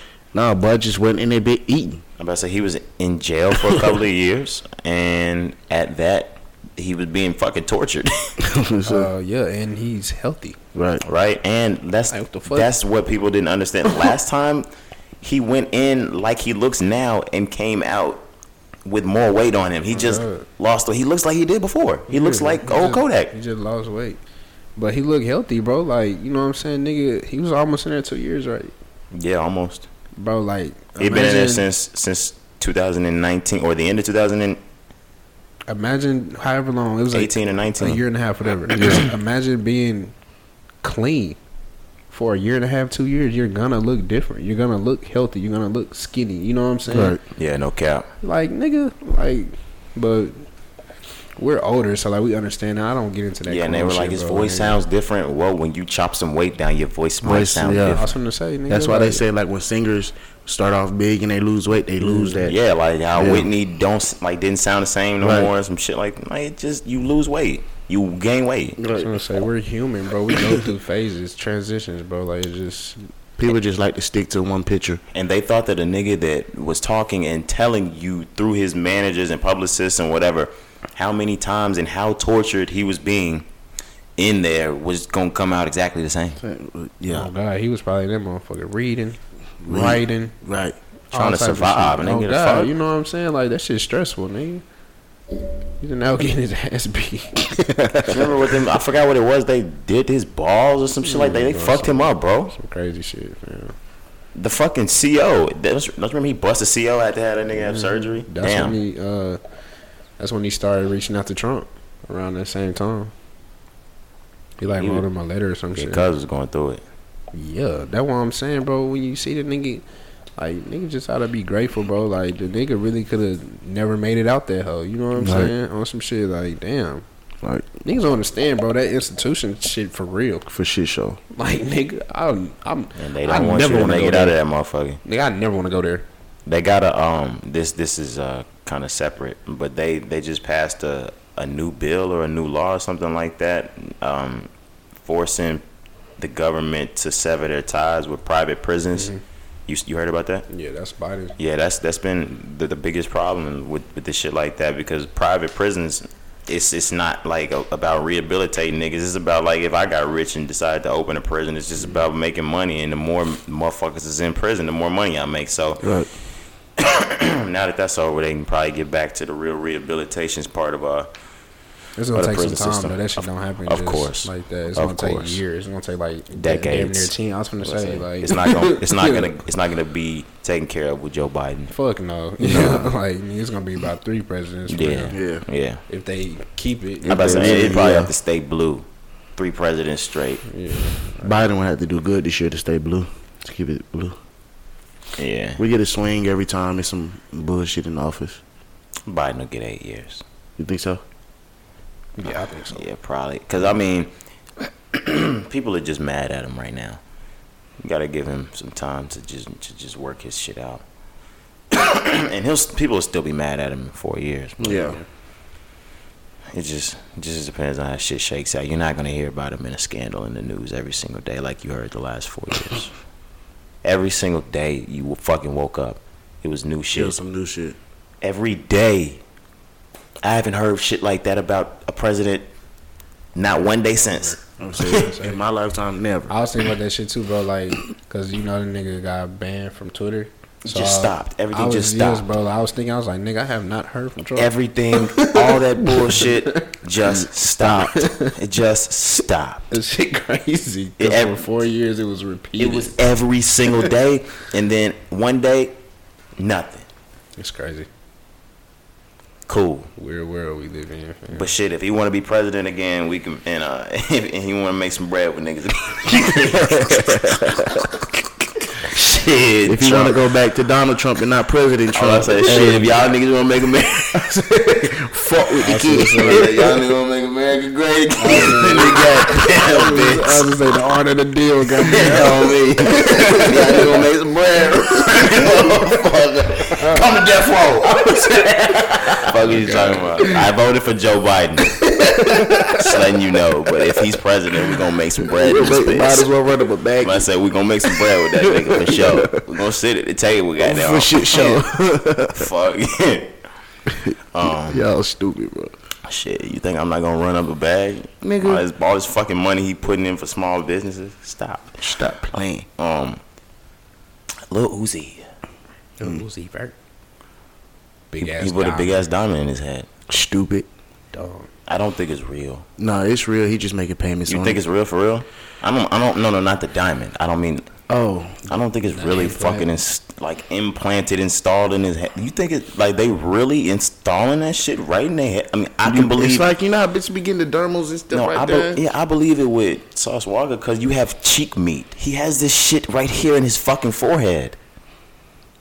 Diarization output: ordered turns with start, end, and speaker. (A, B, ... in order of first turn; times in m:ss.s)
0:00.3-0:02.0 A
0:02.2-0:08.3 B
0:08.4-0:09.1 A
0:08.8-0:10.6 C
0:10.7-0:11.0 A
0:11.0-0:14.7 B
0:12.1-0:12.7 C
0:15.2-0:18.2 B
0:18.8-0:23.3 B
0:19.9-0:20.5 C
0:22.1-0:24.2 C
0:24.8-0:28.7 C
0:29.1-0:29.9 B
0:30.2-0:31.6 C
0:31.0-0:34.6 B
0:35.7-0:40.1 C
0:37.1-0:38.0 B
0:38.7-0:39.0 A
0:40.8-0:41.4 C
0:42.1-0:47.2 C
0:46.9-0:47.2 A
0:47.4-0:48.1 B
0:48.2-0:50.4 C
0:51.4-0:54.8 C
0:53.4-0:58.1 B
0:57.2-0:58.0 A
0:57.9-0:59.2 C
0:58.7-1:02.6 A
1:02.0-1:02.3 C
1:02.4-1:08.8 B
1:03.1-1:03.5 A
1:05.2-1:05.5 A
1:08.8-1:09.1 A
1:09.0-1:13.0 C
1:13.4-1:15.0 A
1:15.1-1:23.5 B
1:24.2-1:26.4 B
1:26.4-1:27.3 A
1:27.1-1:30.3 C
1:29.6-1:30.8 A
1:31.1-1:32.7 B
1:31.1-1:34.6 C
1:35.8-1:37.5 C
1:37.6-1:38.1 A
1:38.1-1:42.5 B
1:41.0-1:43.7 C
1:44.4-1:48.8 B
1:47.5-1:49.4 C
1:50.2-1:53.1 C
1:54.6-1:56.0 C
1:54.8-1:55.0 B
1:55.7-1:56.8 B
1:57.3-1:59.8 C
2:00.4-2:07.0 C
2:05.2-2:05.5 A
2:07.4-2:07.8 A
2:07.8-2:10.4 C
2:10.5-2:11.2 A
2:11.3-2:14.4 C
2:13.0-2:15.0 B
2:15.0-2:16.0 C
2:16.4-2:24.5 B
2:25.0-2:25.6 B
2:26.2-2:29.1 B
2:28.9-2:29.2 C
2:29.7-2:30.4 B
2:30.5-2:31.4 C
2:31.4-2:45.8 B
2:45.8-2:46.1 A
2:46.8-2:51.1 B
2:52.0-2:59.4 C
2:52.1-2:55.2 B
2:56.3-3:01.7 B
3:01.7-3:05.2 C
3:02.4-3:02.9 A
3:04.7-3:05.8 B
3:05.1-3:05.4 A
3:05.9-3:07.7 C
3:07.0-3:08.1 A
3:07.1-3:08.8 B
3:09.4-3:10.4 B
3:10.4-3:11.4 C
3:11.2-3:14.2 A
3:15.2-3:15.6 B
3:15.6-3:18.4 A
3:19.1-3:20.2 B
3:20.6-3:21.0 A
3:22.2-3:22.8 C
3:22.2-3:24.1 B
3:24.9-3:27.0 B
3:27.8-3:30.8 B
3:31.7-3:34.8 B
3:34.6-3:35.0 A
3:36.5-3:42.9 B
3:43.8-3:47.2 B
3:46.9-3:47.8 A
3:48.2-3:49.2 B
3:50.2-3:52.5 B
3:53.3-3:54.4 B
3:54.0-3:55.4 C
3:54.6-3:56.3 A
3:56.3-4:08.4 C
4:00.6-4:02.3 B
4:04.4-4:09.6 B
4:09.7-4:12.9 C
4:11.0-4:11.4 B
4:12.6-4:15.7 B
4:16.4-4:16.9 B
4:17.4-4:17.9 C
4:19.5-4:19.9 B
4:20.0-4:21.5 C
4:21.3-4:27.4 B
4:26.7-4:27.8 A
4:28.8-4:30.2 B
4:29.6-4:33.0 A
4:31.9-4:34.3 B
4:34.6-4:36.6 A
4:35.6-4:36.8 C
4:36.1-4:40.5 B
4:38.2-4:42.6 C
4:41.8-4:48.4 B
4:43.1-4:43.9 A
4:43.6-4:43.9 C
4:46.8-4:47.1 C
4:49.2-4:51.8 B
4:49.5-4:50.3 C
4:52.1-4:52.7 A
4:52.7-4:56.3 B
4:55.2-4:57.3 A
4:57.0-5:01.6 B
4:57.9-4:59.4 A
5:00.6-5:02.4 A
5:02.3-5:03.3 B
5:03.9-5:04.1 A
5:04.3-5:04.8 B
5:04.7-5:05.7 A
5:06.0-5:11.8 B
5:08.2-5:08.6 A
5:11.8-5:12.7 A
5:12.8-5:13.2 B
5:14.5-5:15.2 B
5:16.0-5:16.7 C
5:18.1-5:19.0 C
5:18.2-5:19.9 B
5:20.1-5:20.7 A
5:21.1-5:21.5 C
5:21.7-5:22.6 B
5:22.8-5:24.6 A
5:24.3-5:27.7 B
5:27.9-5:28.5 A
5:28.5-5:36.5 B
5:28.9-5:29.7 C
5:35.8-5:38.8 A
5:38.1-5:44.6 B